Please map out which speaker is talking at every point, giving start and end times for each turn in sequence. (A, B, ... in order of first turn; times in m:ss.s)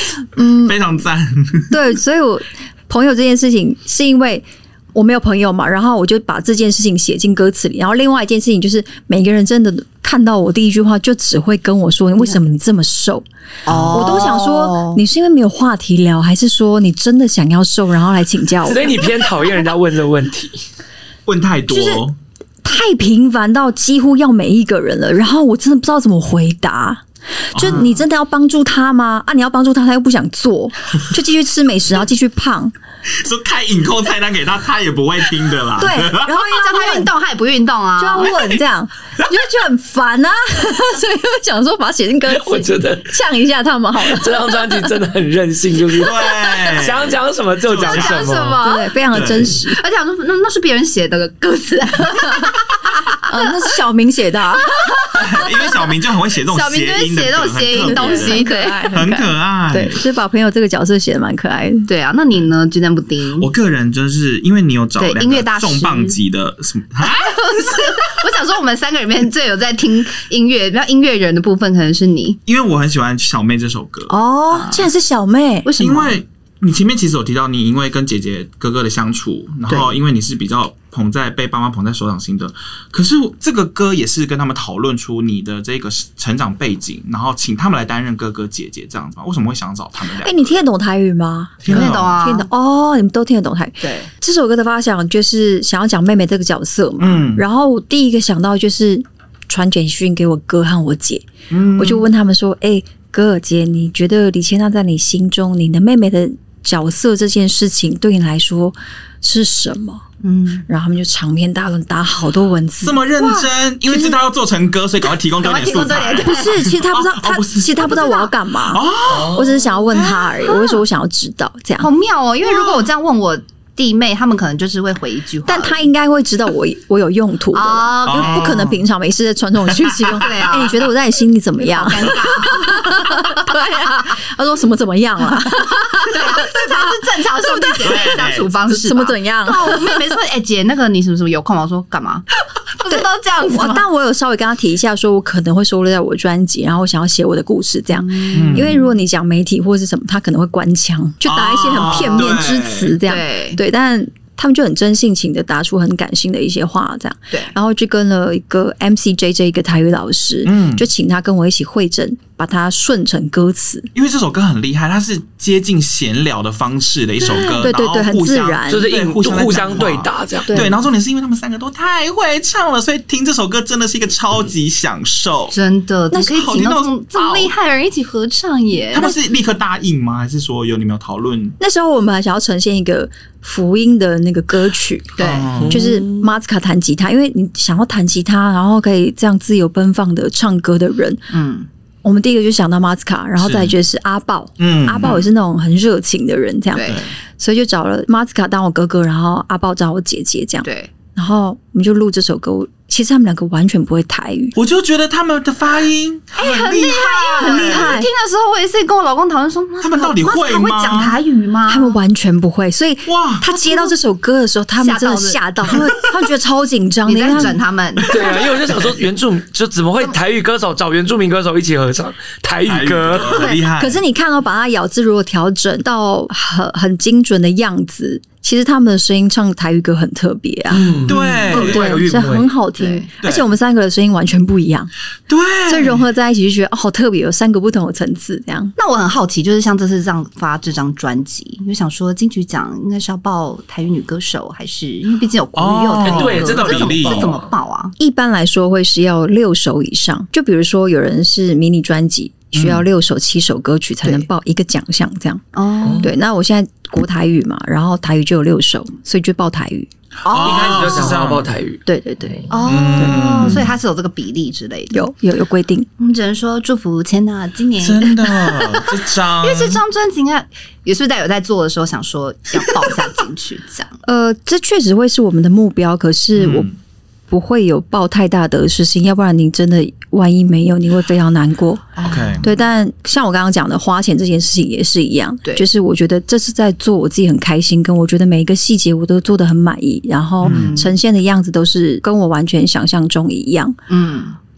0:00.3-0:00.8 A
0:00.5-0:01.8 B
0:01.7-0:13.3 A
0:13.6-0:15.0 C
0:13.7-0:14.4 B
0:13.9-0:19.1 A
0:18.6-0:20.6 D
0:21.3-0:22.2 B
0:21.7-0:22.0 A
0:22.6-0:32.7 A
0:27.6-0:27.9 B
0:27.7-0:27.9 C
0:33.1-0:36.3 B
0:35.8-0:37.1 A
0:36.3-0:38.5 C
0:38.0-0:44.5 A
0:42.3-0:43.2 D
0:44.0-0:48.6 D
0:45.9-0:48.4 B
0:47.8-0:48.9 C
0:48.6-0:49.8 A
0:49.1-0:49.6 B
0:49.7-0:53.5 C
0:53.3-0:54.7 A
0:54.8-0:55.8 C
0:55.1-1:00.0 B
0:56.4-0:59.0 C
0:57.8-1:01.9 A
1:01.9-1:03.5 C
1:03.4-1:07.5 B
1:05.0-1:06.2 C
1:07.0-1:12.4 C
1:12.4-1:14.1 B
1:14.1-1:15.7 A
1:14.5-1:14.9 C
1:15.6-1:16.2 C
1:15.8-1:30.6 B
1:19.7-1:19.9 C
1:30.2-1:50.0 A
1:31.6-1:32.2 B
1:31.7-1:32.5 C
1:33.8-1:34.1 C
1:37.0-1:37.4 B
1:41.5-1:42.0 B
1:50.2-1:50.7 C
1:50.7-1:54.2 A
1:52.8-2:00.3 B
1:55.4-1:56.7 C
1:56.2-2:01.9 A
1:57.9-1:58.3 C
1:59.1-1:59.5 D
2:00.4-2:00.8 C
2:01.8-2:05.9 C
2:05.4-2:20.0 A
2:07.5-2:08.7 C
2:08.1-2:08.8 B
2:09.8-2:10.2 B
2:10.0-2:10.9 C
2:11.6-2:13.5 C
2:15.6-2:23.8 C
2:17.8-2:18.5 B
2:22.9-2:43.9 A
2:27.9-2:28.9 C
2:28.3-2:28.8 B
2:31.3-2:33.0 B
2:33.0-2:33.6 C
2:40.4-2:40.9 B
2:43.9-2:55.6 B
2:47.2-2:47.7 C
2:47.6-2:48.9 A
2:48.7-2:50.6 D
2:50.5-2:50.7 A
2:55.5-2:59.1 C
2:56.2-2:57.5 B
2:58.9-3:01.6 B
3:01.6-3:11.3 A
3:05.2-3:05.5 C
3:05.2-3:05.8 B
3:05.6-3:06.3 D
3:11.3-3:11.7 C
3:12.0-3:24.5 A
3:13.4-3:13.8 B
3:14.6-3:15.2 B
3:16.7-3:17.1 C
3:16.8-3:17.1 B
3:20.6-3:20.9 C
3:24.6-3:28.0 B
3:26.4-3:32.0 C
3:27.4-3:28.1 A
3:29.8-3:31.2 B
3:31.7-3:37.6 A
3:33.1-3:33.6 B
3:34.8-3:35.4 C
3:37.1-3:38.9 C
3:38.0-3:43.5 D
3:42.6-3:44.0 B
3:43.3-3:50.9 A
3:50.7-3:52.5 D
3:51.1-3:52.0 B
3:51.5-3:54.9 A
3:52.8-3:53.1 C
3:53.2-3:53.5 B
3:55.3-3:56.0 B
3:55.7-3:58.8 A
3:58.8-4:08.0 C
4:05.6-4:07.4 B
4:06.0-4:07.4 D
4:08.0-4:15.5 A
4:12.5-4:12.8 B
4:15.6-4:16.1 C
4:15.8-4:16.1 D
4:16.0-4:19.9 A
4:20.2-4:21.5 B
4:20.2-4:21.2 C
4:20.4-4:21.8 D
4:21.9-4:23.6 A
4:22.5-4:25.1 C
4:22.6-4:23.7 B
4:24.9-4:25.9 A
4:26.0-4:28.9 C
4:27.8-4:29.8 B
4:29.4-4:34.0 C
4:34.0-4:36.7 A
4:36.4-4:36.8 B
4:37.3-4:53.8 A
4:42.0-4:42.5 C
4:42.0-4:42.5 B
4:50.4-4:50.8 B
4:50.4-4:51.0 C
4:53.9-4:54.4 C